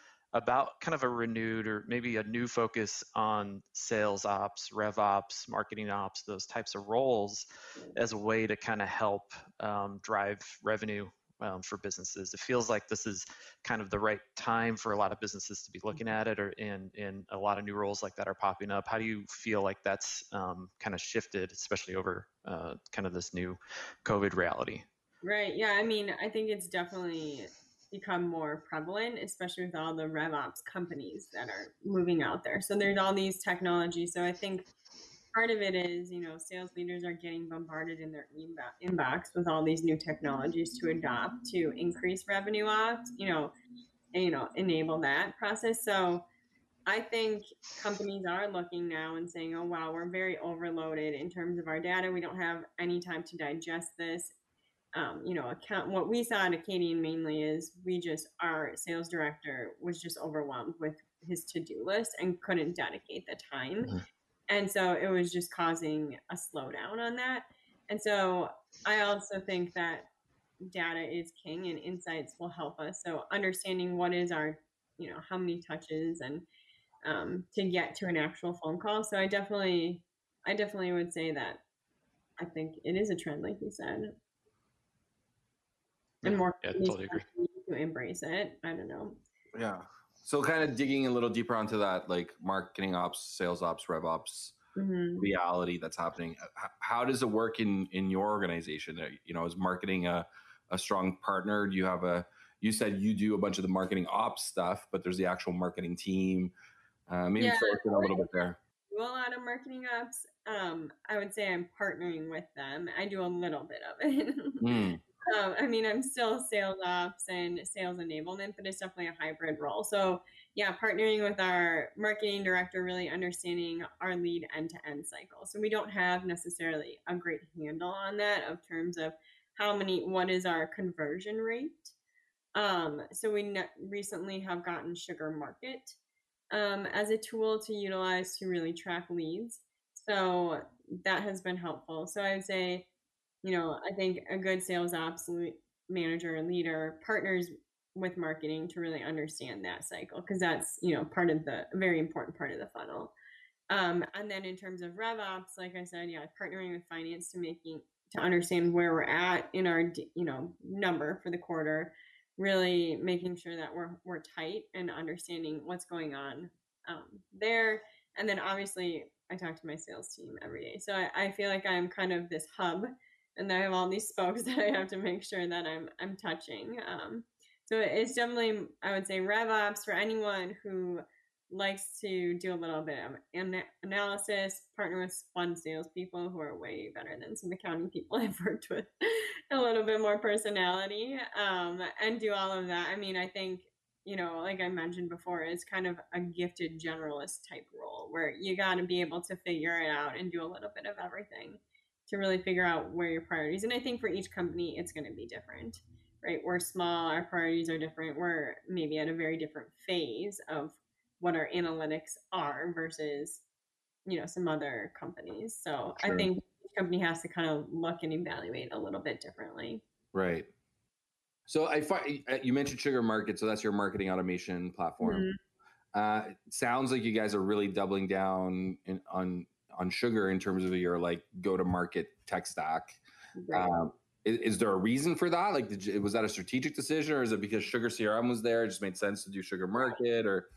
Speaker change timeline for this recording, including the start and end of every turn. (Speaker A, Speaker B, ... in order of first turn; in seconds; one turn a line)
Speaker A: 0.3-24.8
Speaker B: 25.2-34.7
Speaker B: 35.3-43.5
Speaker B: 44.1-46.2
Speaker B: 46.9-54.3
Speaker B: 54.9-63.9
Speaker B: 64.5-70.0
Speaker B: 70.6-76.4
Speaker B: 77.0-81.6
Speaker B: 82.4-84.1
Speaker A: 86.2-87.2
Speaker B: 86.2-89.2
Speaker C: 89.5-94.5
Speaker B: 94.8-95.2
Speaker C: 95.2-106.5
Speaker C: 107.1-108.6
Speaker B: 107.4-108.3
Speaker B: 108.9-114.7
Speaker C: 114.6-115.0
Speaker B: 115.2-131.9
Speaker B: 132.5-136.0
Speaker B: 136.5-142.8
Speaker B: 143.4-153.1
Speaker B: 153.7-213.4
Speaker B: 214.1-219.8
Speaker C: 220.1-220.5
Speaker C: 221.5-225.2
Speaker B: 225.0-225.4
Speaker C: 225.9-233.0
Speaker B: 233.3-233.7
Speaker C: 233.5-240.5